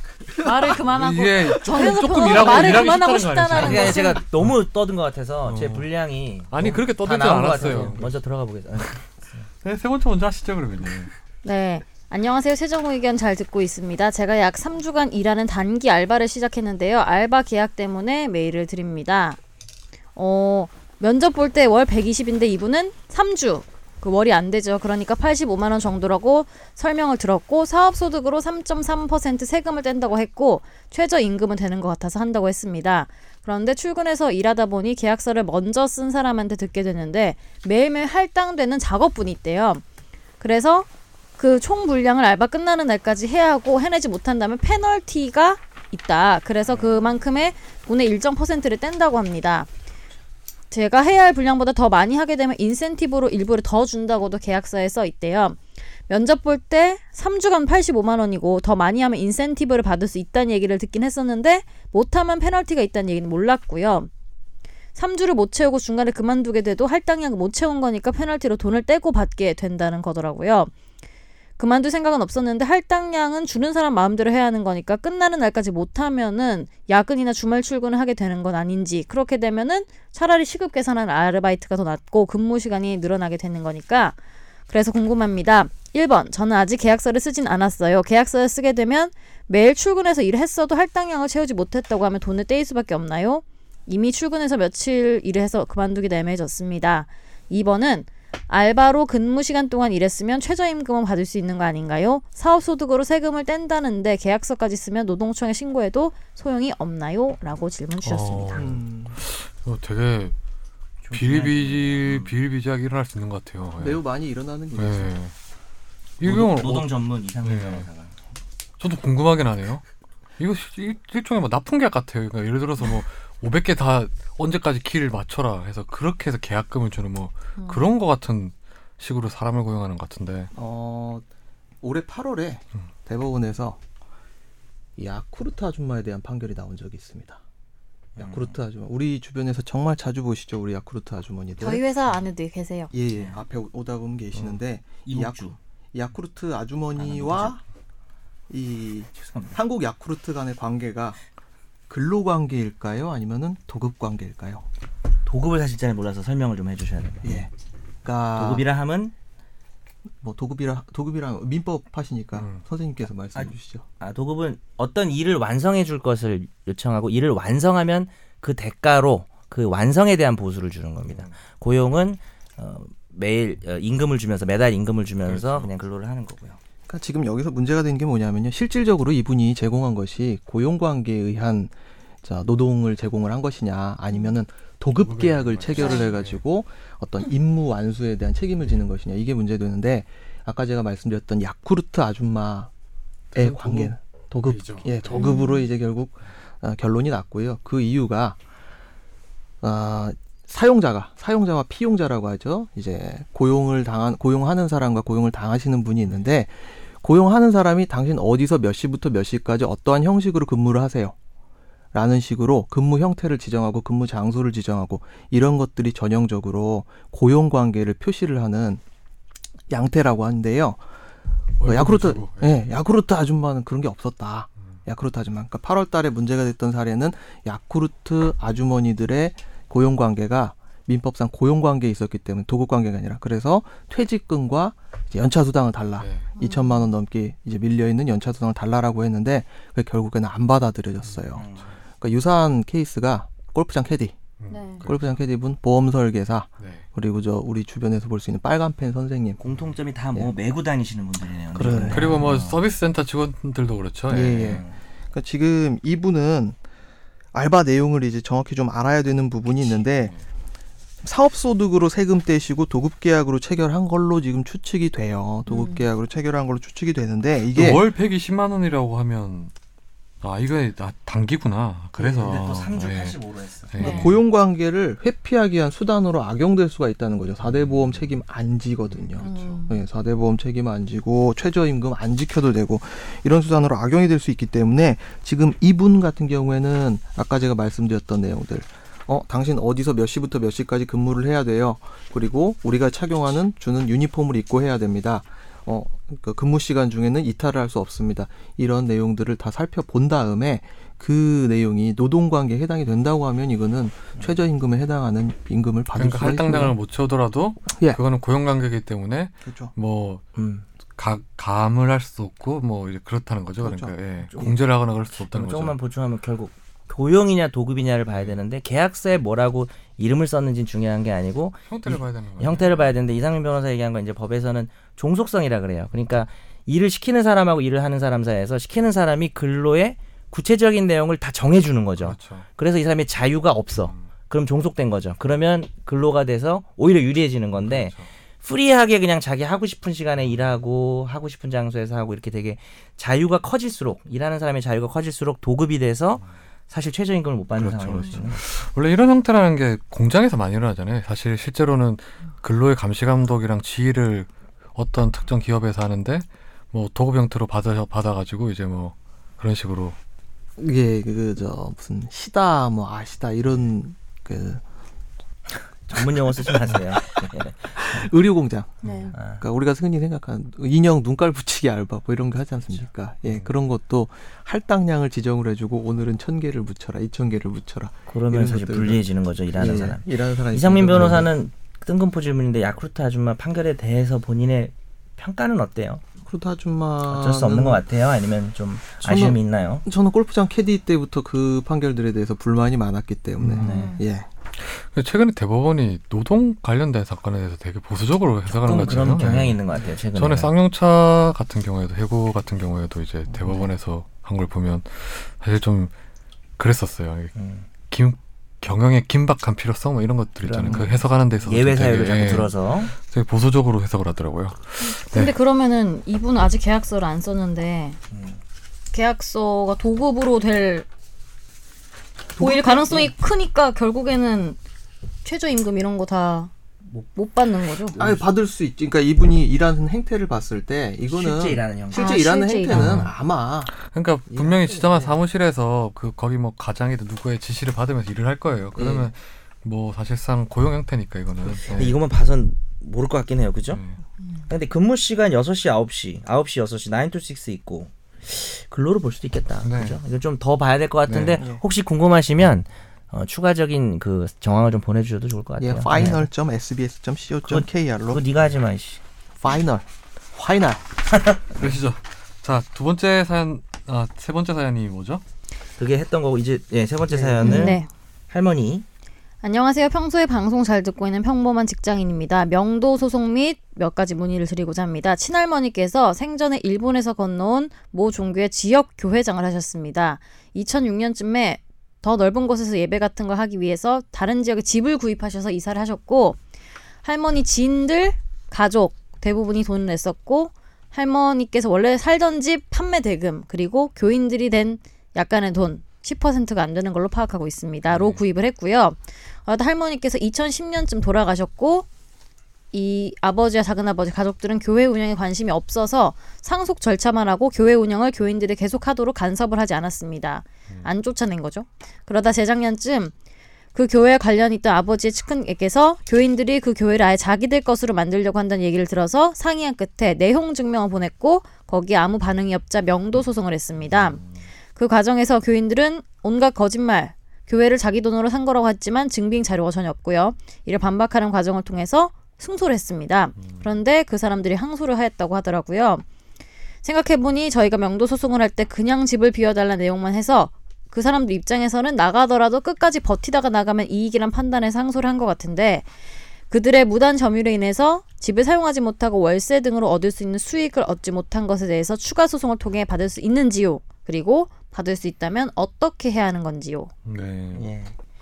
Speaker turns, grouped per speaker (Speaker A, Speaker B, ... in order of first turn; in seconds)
Speaker A: 0.4-4.2, 11.4-19.4, 20.1-39.8, 40.4-49.7, 50.7-64.1, 65.0-70.7, 71.6-84.2, 84.7-108.6, 127.6-127.8, 141.6-142.9, 195.1-195.6, 236.4-236.9, 244.5-244.8, 265.5-265.8, 273.8-274.2, 279.2-279.8, 368.8-369.1, 393.7-393.9, 414.8-418.0, 418.9-420.9, 422.4-424.6, 425.2-426.5, 427.1-428.0, 431.9-433.0, 467.4-467.9, 469.4-486.4, 487.0-501.9, 502.7-513.1, 513.7-524.2, 524.8-536.0, 536.8-545.9, 546.5-556.9
Speaker B: 0.8-4.5, 5.4-5.9, 6.5-8.2, 9.6-11.1, 108.0-110.3, 111.1-114.0, 114.8-115.3, 116.2-116.9, 117.4-117.9, 118.8-119.8, 120.4-130.5, 162.3-162.6, 171.1-171.3, 175.2-175.7, 184.9-186.4, 193.3-195.3, 221.6-222.7, 236.0-236.3, 241.0-241.7, 244.4-245.2, 246.6-246.8, 251.9-254.6, 259.6-260.2, 267.5-269.5, 270.2-273.2, 273.7-274.2, 277.5-278.1, 278.9-279.6, 305.9-310.2, 311.0-315.8, 318.1-318.4, 321.7-322.9, 332.0-332.5, 337.6-338.1, 347.6-360.0, 393.4-393.7, 394.6-399.6, 400.1-405.9, 406.6-407.3, 407.9-415.3, 432.7-433.1, 433.9-442.0, 443.7-444.0, 449.6-450.0, 451.1-451.4, 461.6-465.2, 497.9-498.2, 557.0-557.7
Speaker C: 3.5-9.4, 111.0-112.3, 116.2-118.2, 138.2-138.5, 143.1-143.4, 145.1-145.6, 147.0-147.5, 149.2-149.6, 155.2-157.5, 158.3-159.1, 163.3-176.6, 241.3-241.8, 249.4-252.6, 254.3-254.8, 272.0-273.8, 310.4-310.7, 314.3-314.6, 315.3-348.4, 365.9-368.0, 369.1-369.4, 378.1-386.0, 387.1-389.8, 393.6-394.0, 398.6-400.5, 407.3-407.7, 410.4-412.9, 418.1-418.4, 427.9-428.2, 431.0-432.3, 441.7-443.8, 444.5-456.2, 457.5-459.0, 461.1-461.4, 465.8-467.8, 468.3-468.8, 557.5-558.0
Speaker D: 108.5-109.2, 113.8-115.1, 130.5-131.2, 131.8-133.8, 135.0-137.4, 138.2-141.8, 142.9-147.6, 148.5-151.2, 151.9-154.6, 157.2-157.5, 158.0-158.7, 160.2-163.8, 176.9-181.7, 182.2-192.7, 193.3-198.4, 199.6-211.1, 211.9-218.8, 219.7-220.8, 221.6-241.5, 242.0-244.2, 244.8-249.4, 251.5-252.2, 254.1-256.6, 257.3-260.1, 261.0-267.9, 273.8-306.8, 309.4-309.7, 313.6-314.0, 360.6-364.6, 367.8-381.3, 386.2-387.8, 389.0-394.3, 422.4-423.1, 428.0-433.7, 434.3-435.1, 451.4-451.6, 455.6-458.2, 459.4-460.8, 467.1-467.7